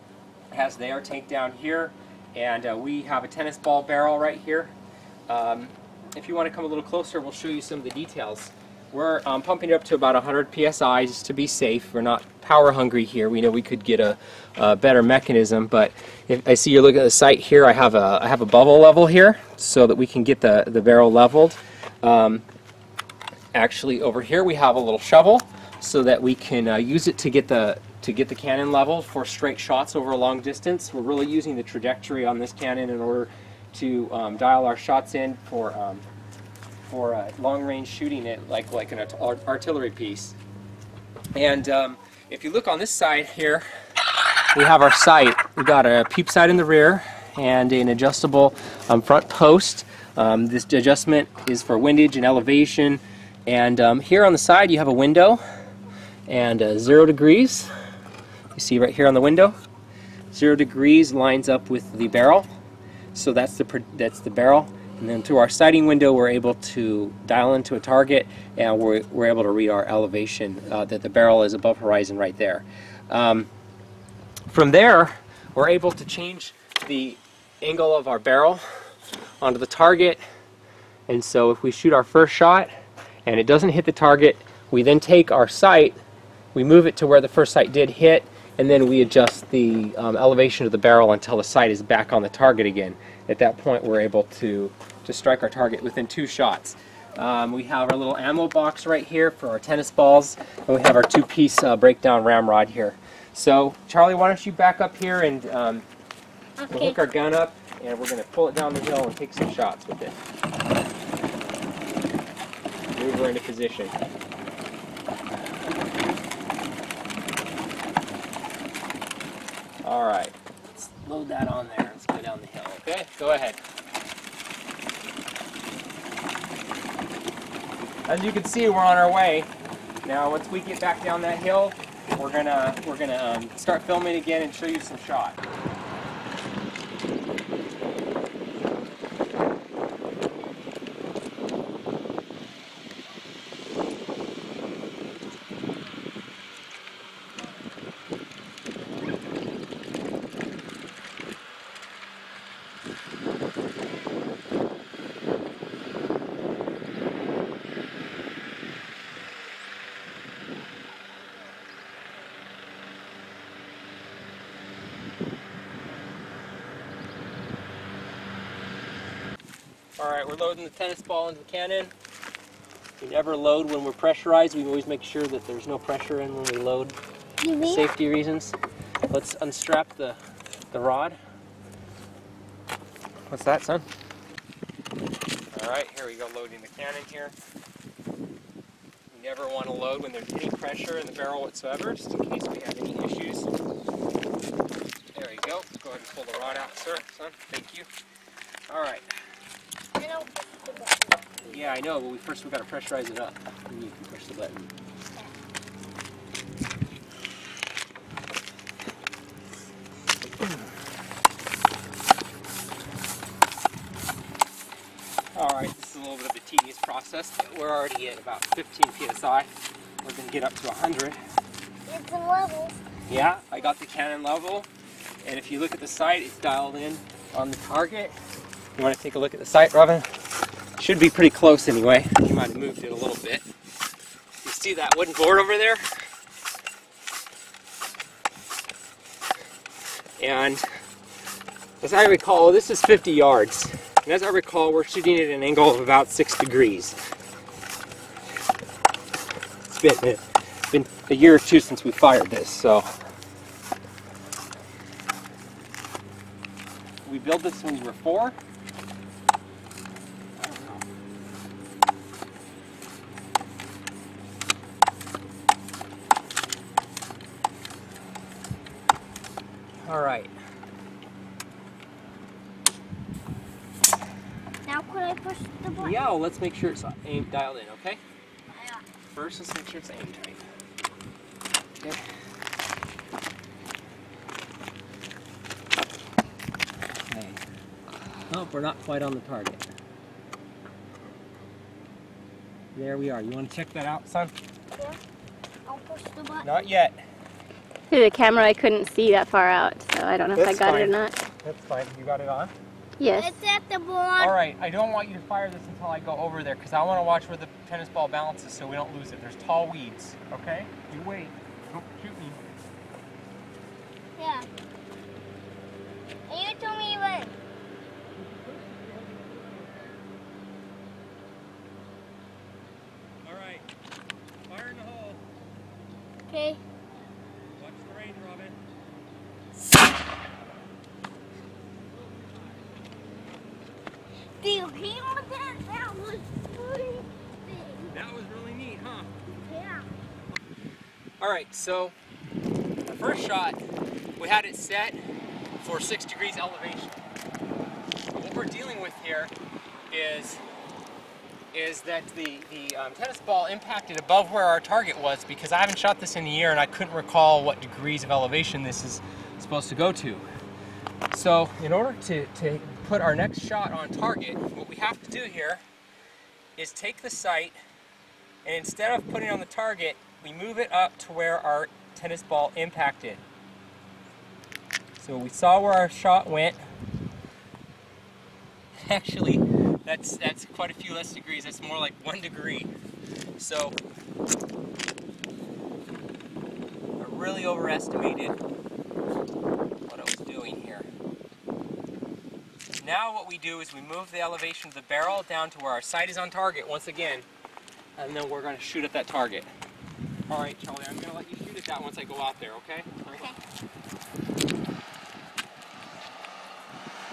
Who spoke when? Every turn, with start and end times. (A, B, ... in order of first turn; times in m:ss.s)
0:00.5-0:04.8 A
0:05.3-0:22.4 A
0:23.5-0:36.0 A
0:36.8-0:40.4 A
0:41.3-0:43.6 A
0:44.5-0:55.4 A
0:56.3-0:57.7 A
0:58.5-0:59.6 A
1:00.3-1:02.5 A
1:03.1-1:13.5 A
1:14.5-1:18.6 A
1:19.4-1:20.2 A
1:21.1-1:22.7 A
1:23.3-1:26.0 A
1:26.5-1:45.8 A
1:46.6-1:47.0 B
1:46.7-1:50.2 A
1:52.9-1:54.0 A
1:59.8-2:03.6 A
2:08.1-2:09.5 A
2:10.0-2:15.4 A
2:50.0-2:51.9 A
2:53.0-2:57.0 A
2:57.4-2:57.9 B
2:57.6-2:58.6 A
2:59.1-3:00.2 A
3:00.7-3:01.2 A
3:03.3-3:03.9 A
3:05.5-3:07.4 A
3:09.1-3:13.5 A
3:15.1-3:17.9 A
3:18.7-3:19.1 A
3:20.0-3:21.4 B
3:21.5-3:24.7 A
3:35.4-3:39.5 A
3:40.0-3:41.2 A
3:41.9-3:42.8 B
3:43.1-3:44.7 A
3:45.2-3:48.2 A
3:48.8-3:50.1 A
3:50.8-3:53.4 A
3:54.4-3:55.9 A
4:00.2-4:00.6 A
4:01.8-4:07.0 A
4:09.7-4:12.9 A
4:17.0-4:18.4 A
4:20.4-4:20.8 A
4:29.8-4:30.3 A
4:34.7-4:36.0 B
4:35.8-4:38.0 A
4:38.5-4:38.8 B
4:39.0-4:40.4 A
4:47.1-4:47.4 A
4:48.3-4:49.6 A
4:52.8-4:54.3 A
4:55.7-4:56.5 B
4:56.4-4:57.0 A
4:57.9-5:01.2 C
5:00.4-5:02.5 A
5:03.0-5:03.3 C
5:03.1-5:04.3 B
5:04.2-5:12.4 A
5:14.2-5:14.5 B
5:16.3-5:17.4 B
5:18.7-5:19.2 A
5:23.2-5:23.7 A
5:24.5-5:25.2 A
5:26.3-5:26.6 B
5:27.6-5:28.6 A
5:34.4-5:37.9 B
5:37.9-5:39.1 A
5:39.4-5:39.9 B
5:41.2-5:42.0 A
5:42.9-5:43.6 A
5:44.2-5:45.0 A
5:45.6-5:47.0 A
5:48.1-5:49.3 A
5:49.9-5:50.4 A
5:51.5-6:00.3 A
6:01.1-6:05.6 A
6:06.6-6:07.6 A
6:08.4-6:13.2 A
6:15.0-6:16.6 A
6:18.8-6:22.7 A
6:23.4-6:23.8 A
6:27.0-6:28.4 A
6:29.9-6:30.9 A
6:32.8-6:37.3 A
6:38.0-6:39.5 A
6:40.3-6:43.3 A